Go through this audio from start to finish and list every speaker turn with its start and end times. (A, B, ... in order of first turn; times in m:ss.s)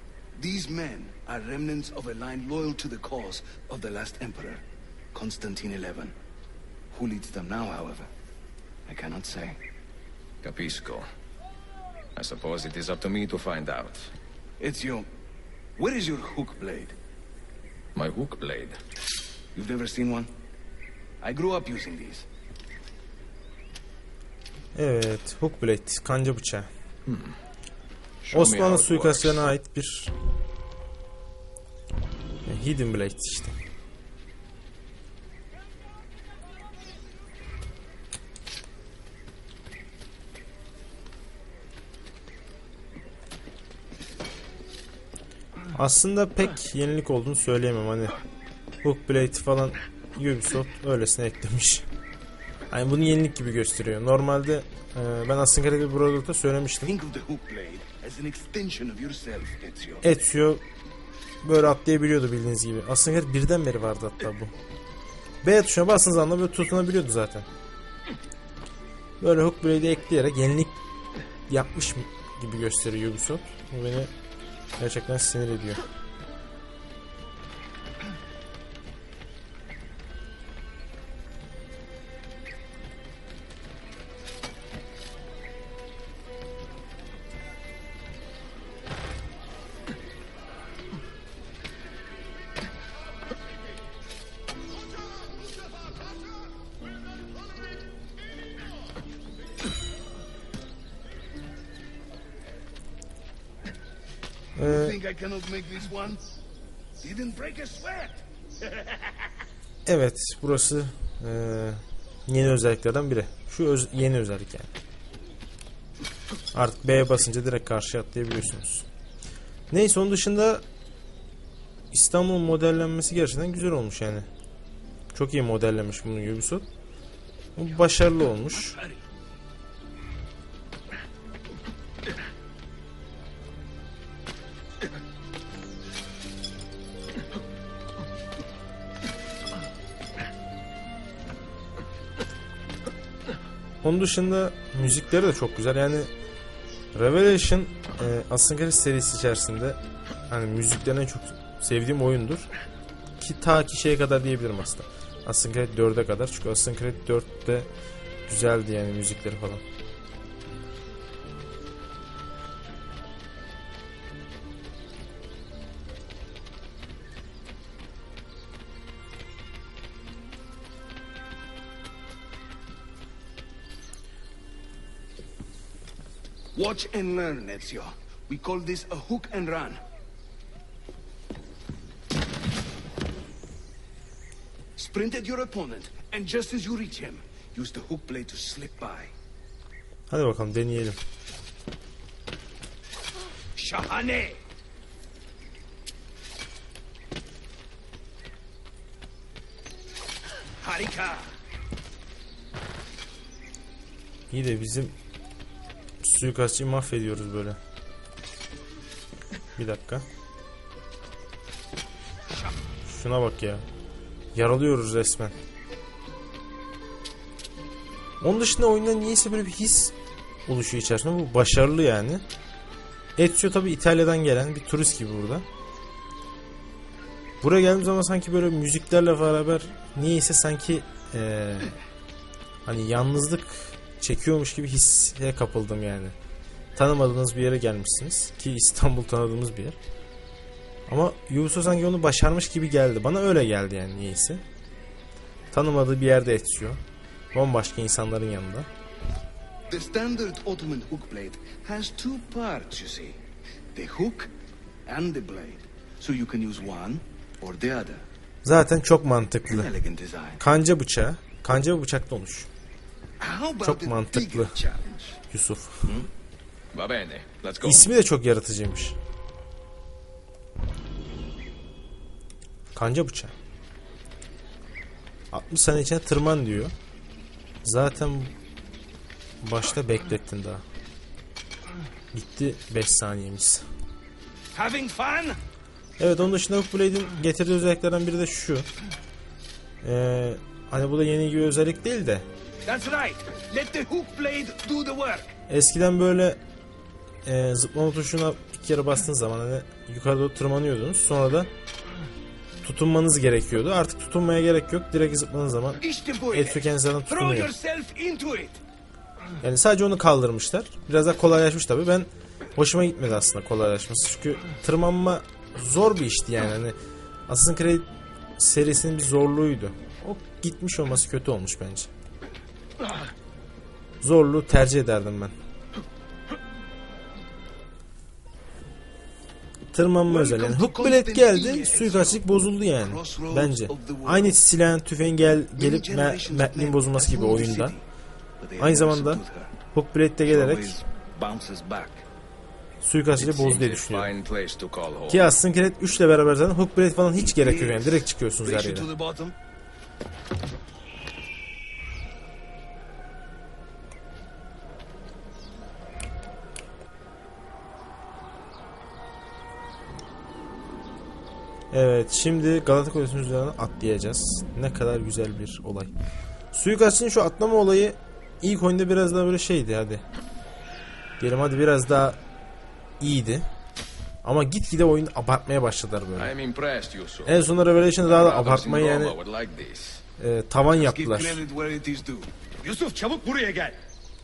0:00.3-0:04.6 A
0:05.1-0:06.1 A
0:06.9-0:08.1 A
0:08.9-0:09.6 A
0:10.4-0:11.0 B
0:12.2-0:14.1 B
0:14.6-0:15.1 A
0:15.8-0:16.9 A
0:17.9-0:18.8 B
0:19.5-0:20.3 A
0:21.2-0:22.2 A
0:24.7-0:26.7 C
0:27.1-0:27.3 B
0:28.2-0:29.5 B
0:28.3-0:30.1 C
0:32.4-0:33.6 C
0:45.7-0:48.2 C
0:48.8-0:51.8 C
0:52.7-0:56.9 C
0:56.8-1:00.0 A
1:00.0-1:00.6 C
1:01.4-1:04.5 C
1:05.4-1:07.5 C
1:09.2-1:10.8 C
1:11.5-1:14.1 C
1:14.8-1:15.8 C
1:44.6-1:45.0 C
1:44.6-1:46.2 A
1:47.0-1:48.2 A
1:49.8-1:54.7 C
1:56.5-1:58.9 C
1:59.7-2:00.6 C
2:01.9-2:04.3 C
2:05.1-2:06.7 C
2:07.6-2:08.8 C
2:23.8-2:26.1 C
2:26.9-2:32.5 C
2:33.2-2:37.7 C
2:38.3-2:39.6 C
2:56.5-2:59.8 A
3:04.8-3:09.1 A
3:10.1-3:11.0 C
3:13.6-3:14.4 A
3:20.6-3:21.3 A
3:24.3-3:24.9 C
3:26.0-3:27.6 C
3:29.6-3:30.0 C
3:32.8-3:33.6 C
3:34.3-3:35.3 C
3:38.2-3:39.9 C
3:40.5-3:42.2 C
3:43.2-3:45.4 C
3:47.4-3:51.7 C
3:52.6-3:56.1 C
3:56.7-3:59.8 C
4:00.9-4:04.4 C
4:05.5-4:06.8 C
4:07.3-4:08.7 C
4:09.7-4:13.2 A
4:13.7-4:14.3 A
4:14.8-4:18.0 A
4:18.4-4:19.7 C
4:19.5-4:20.4 A
4:20.4-4:22.5 C
4:23.2-4:25.2 A
4:23.6-4:24.6 C
4:25.3-4:26.0 C
4:26.7-4:27.9 B
4:27.6-4:29.0 C
4:32.7-4:33.3 C
4:35.3-4:36.7 C
4:37.6-4:38.3 C
4:39.4-4:40.6 C
4:42.1-4:43.6 C
4:44.5-4:45.4 A
4:46.0-4:48.7 C
4:49.8-4:52.2 C
4:52.6-4:55.3 A
4:55.5-4:56.4 C
4:57.2-5:01.5 C
5:02.6-5:07.5 C
5:05.8-5:08.6 A
5:09.4-5:16.8 C
5:17.3-5:17.9 C
5:18.4-5:21.9 C
5:24.0-5:25.3 C
5:29.7-5:37.8 C
5:30.1-5:34.4 A
5:35.6-5:37.8 A
5:38.4-5:39.6 A
5:38.6-5:40.8 C
5:40.2-5:42.0 A
5:42.8-5:44.1 C
5:43.2-5:45.3 B
5:45.1-5:48.9 C
5:47.2-5:49.4 A
6:01.7-6:05.9 C
6:06.5-6:10.0 C
6:11.2-6:12.2 C
6:13.0-6:13.5 C
6:14.2-6:16.3 C
6:16.1-6:20.0 B
6:17.2-6:19.2 C
6:20.2-6:21.4 C
6:20.7-6:23.8 A